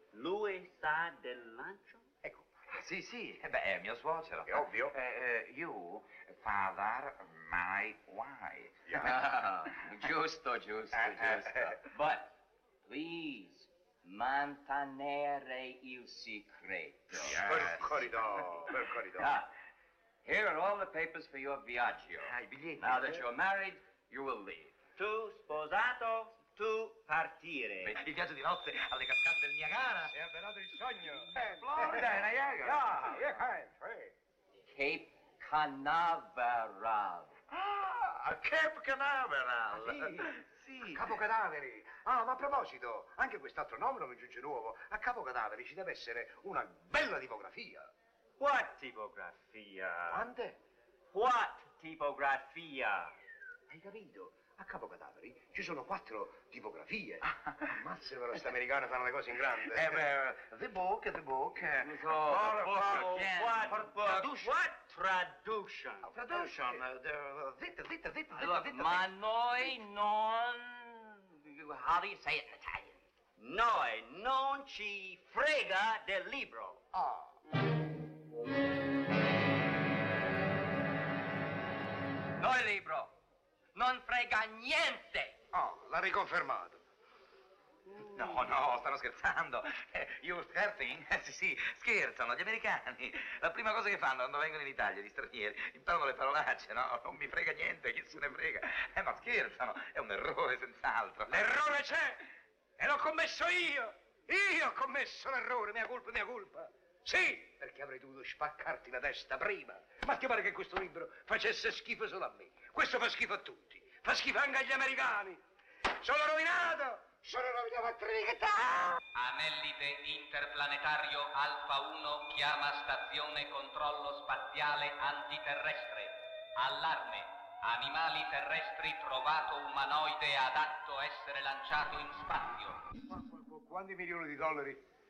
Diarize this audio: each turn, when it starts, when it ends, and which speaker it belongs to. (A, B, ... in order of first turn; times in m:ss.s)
0:00.1-0:02.1 A
0:02.7-0:09.0 B
0:04.5-0:04.9 C
0:09.0-0:17.4 D
0:17.1-0:18.1 B
0:17.2-0:19.3 C
0:19.2-0:19.5 D
0:20.2-0:24.8 D
0:22.2-0:23.2 B
0:25.0-0:27.9 A
0:27.8-0:30.1 B
0:30.1-0:34.1 C
0:31.4-0:32.8 B
0:34.7-0:37.3 D
0:37.5-0:41.0 B
0:39.7-0:40.1 C
0:40.9-0:47.9 C
0:48.4-0:50.1 A
0:48.4-0:48.7 B
0:50.1-0:50.6 C
0:51.1-0:51.4 B
0:51.4-0:53.1 A
0:53.7-1:00.0 C
0:59.7-1:04.6 B
1:01.8-1:03.9 D
1:02.5-1:06.1 A
1:06.0-1:09.1 B
1:08.3-1:13.0 D
1:13.4-1:16.8 A
1:16.9-1:17.3 C
1:22.4-1:23.1 D
1:23.7-1:25.3 D
1:25.5-1:26.8 C
1:28.0-1:41.4 B
1:41.3-1:42.2 C
1:42.8-1:55.4 C
1:56.0-1:59.0 C
1:59.1-2:12.8 E
2:13.1-2:14.8 C